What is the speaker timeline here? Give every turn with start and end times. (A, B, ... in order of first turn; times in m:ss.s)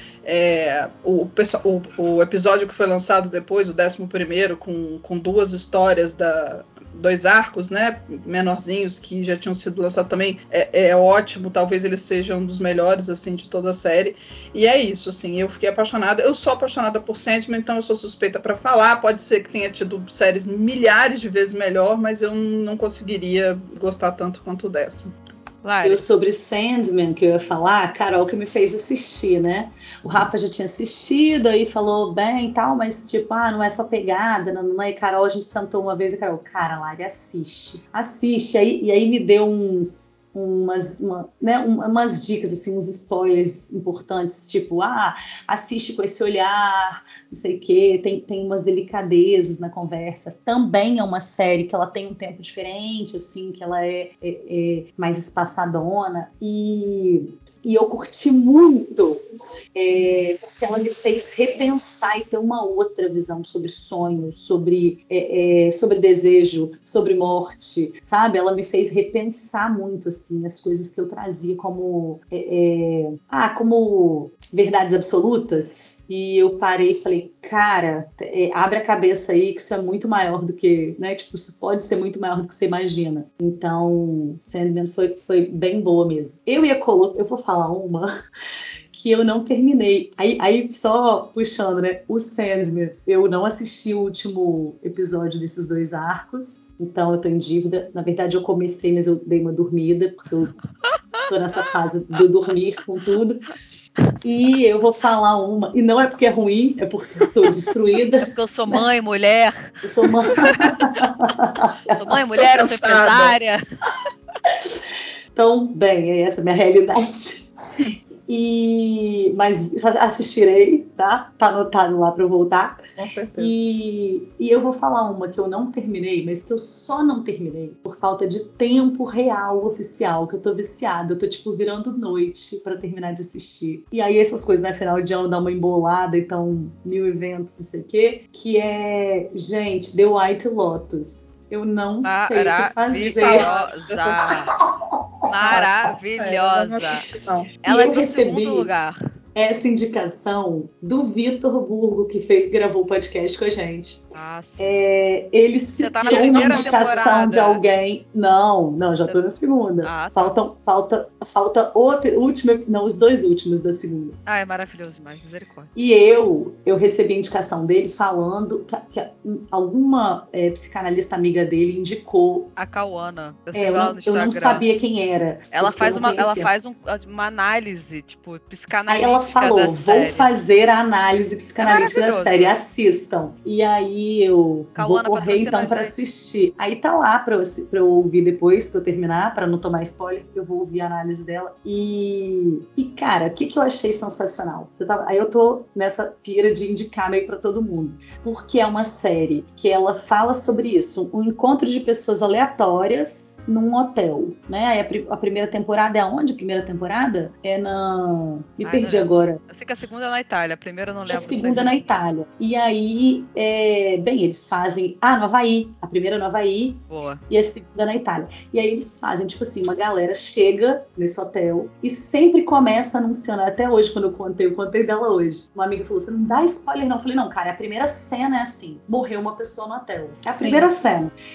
0:00.2-0:25.1 A
0:25.6-0:26.0 B
0:25.8-0:59.2 C
0:59.7-1:28.1 C
1:28.9-1:40.5 C
1:41.3-1:43.5 C
1:44.2-1:48.8 C
1:48.2-1:49.7 B
1:49.8-1:52.2 C
1:51.9-1:53.6 B
1:52.3-1:53.4 A
1:55.3-1:57.5 C
1:58.3-2:02.8 C
2:03.0-2:03.6 A
2:03.4-2:23.5 C
2:22.0-2:24.5 B
2:22.9-2:24.4 A
2:24.3-2:25.6 C
2:25.2-2:27.0 B
2:25.4-2:27.5 A
2:27.6-2:29.0 B
2:27.6-2:28.7 C
2:29.3-2:34.0 C
2:34.1-2:34.8 B
2:34.6-2:44.2 C
2:35.8-2:37.6 B
2:36.0-2:37.0 A
2:39.8-2:40.3 B
2:44.3-2:45.7 B
2:45.7-2:52.5 C
2:52.6-2:54.6 B
2:53.5-2:56.5 C
2:55.5-3:00.3 B
2:58.9-3:29.4 C
3:01.6-3:02.6 B
3:04.8-3:05.9 B
3:28.6-3:31.9 B
3:31.1-3:51.1 C
3:36.9-3:37.2 B
3:50.3-3:50.7 A